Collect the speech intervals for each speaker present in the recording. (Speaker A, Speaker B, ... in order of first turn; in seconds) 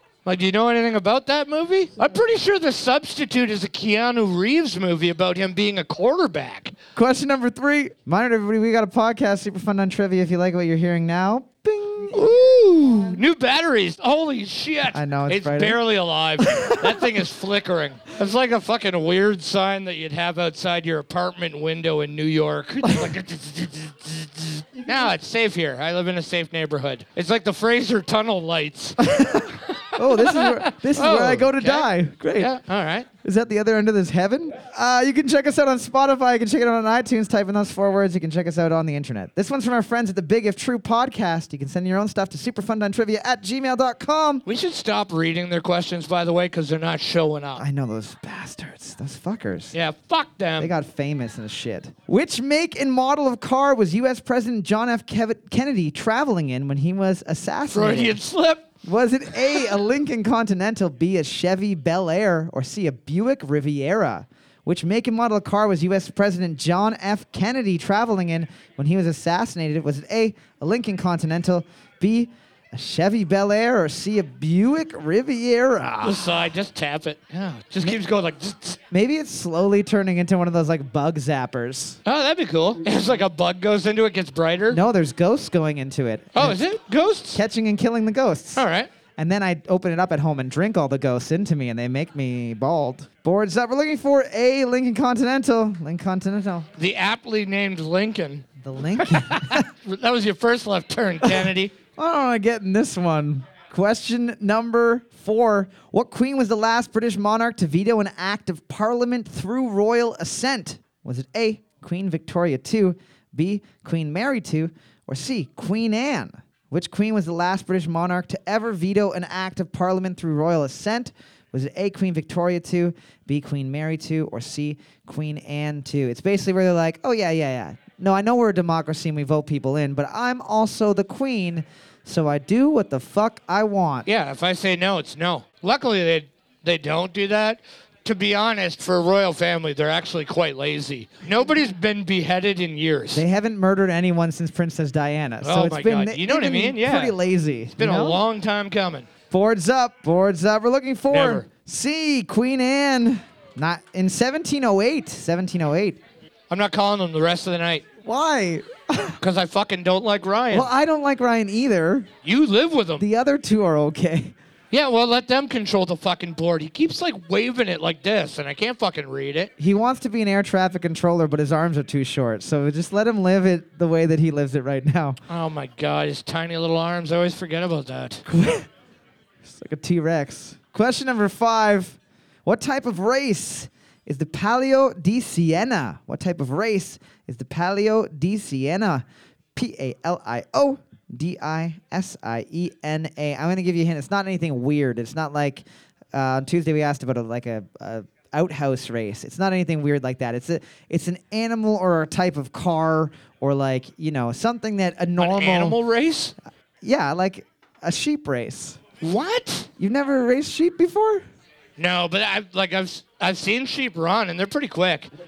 Speaker A: 0.2-6.8, 12.2-33.1, 44.5-47.6, 49.7-50.7, 57.7-58.7, 59.4-59.7, 76.0-78.8, 82.1-84.8, 86.3-87.4, 88.6-88.9, 96.8-98.5, 99.0-101.7, 134.1-143.2, 145.4-147.2, 147.8-149.1, 151.1-151.5, 156.5-157.8, 159.2-160.7, 162.2-163.0, 164.7-169.5, 175.3-178.2, 205.2-206.3, 209.0-209.7, 211.8-215.1
Speaker B: 7.0-13.0, 14.9-15.8, 16.5-16.9, 29.0-32.5, 33.2-44.4, 47.6-49.7, 50.6-58.2, 58.8-76.2, 78.9-82.0, 84.7-86.6, 87.3-88.6, 89.2-96.7, 98.6-99.7, 102.0-134.1, 143.1-148.2, 149.3-156.0, 158.0-159.2, 160.5-162.1, 163.0-164.3, 169.6-175.2, 178.3-178.7, 179.4-189.0, 189.6-205.8, 206.8-208.8, 209.8-211.3